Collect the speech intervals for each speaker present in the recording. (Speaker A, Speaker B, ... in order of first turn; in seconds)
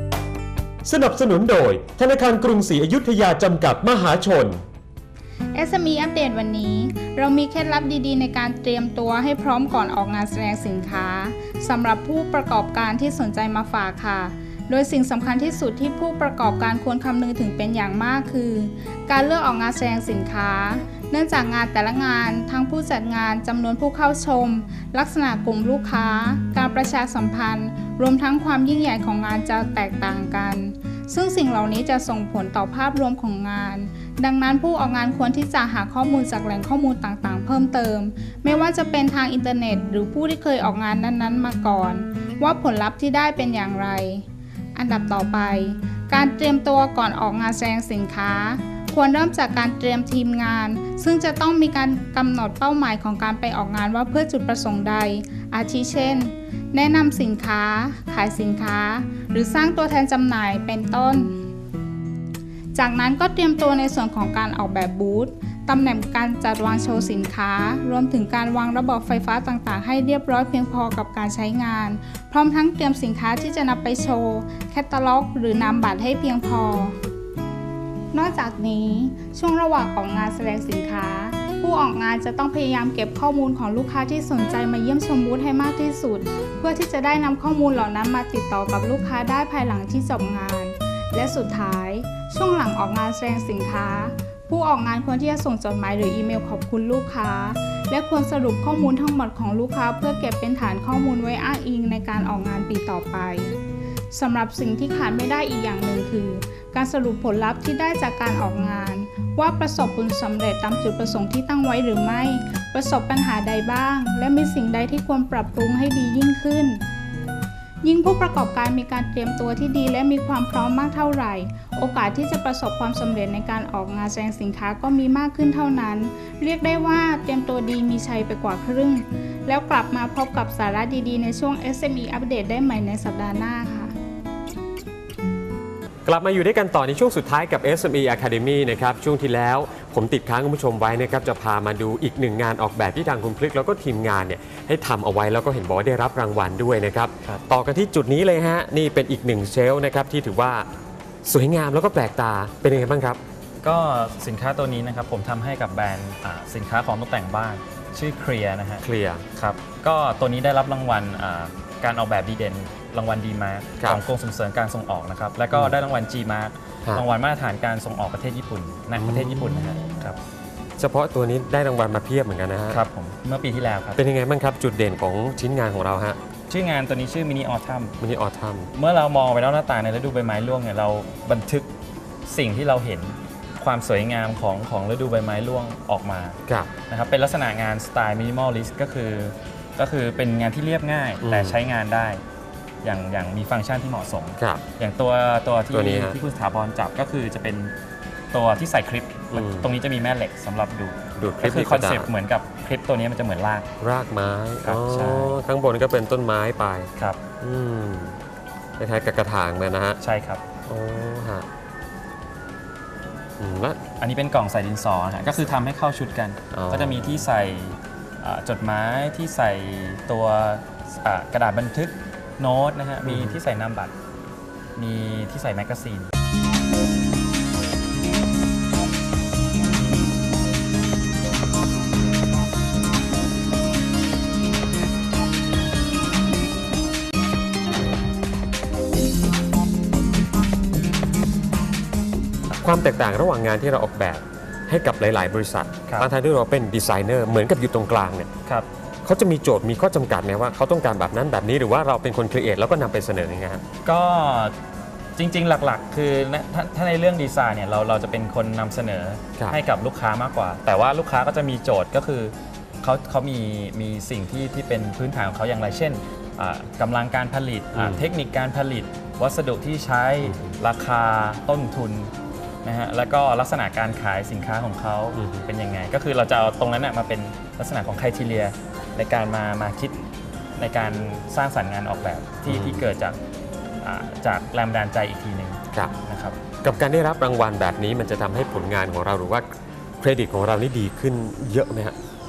Speaker A: 0.8-4.6, 136.1-150.7, 151.3-153.2, 158.8-159.2, 169.0-169.9, 170.8-172.8, 174.0-176.2, 178.0-178.7, 191.2-191.7, 194.4-194.6, 195.7-196.2, 199.3-199.7, 201.2-202.1, 203.8-208.2, 208.8-210.0, 210.7-211.5, 213.4-213.8, 216.5-217.2, 223.1-223.4, 242.5-248.3, 249.1-253.6, 267.8-268.1, 275.2-275.5, 282.5-282.9, 286.6-289.5, 290.0-292.0
Speaker B: 5.5-61.4, 62.8-77.0, 78.1-103.6, 104.1-116.8, 117.8-133.9
Speaker C: 153.6-170.2, 172.7-174.0, 176.5-177.9, 178.7-181.7, 182.3-192.2, 192.8-197.7, 198.3-203.7, 204.6-205.4, 207.0-207.2, 210.0-210.4, 214.0-223.9, 224.8-226.1, 253.8-254.6, 255.2-272.1, 272.6-280.0, 280.6-283.2, 283.8-286.4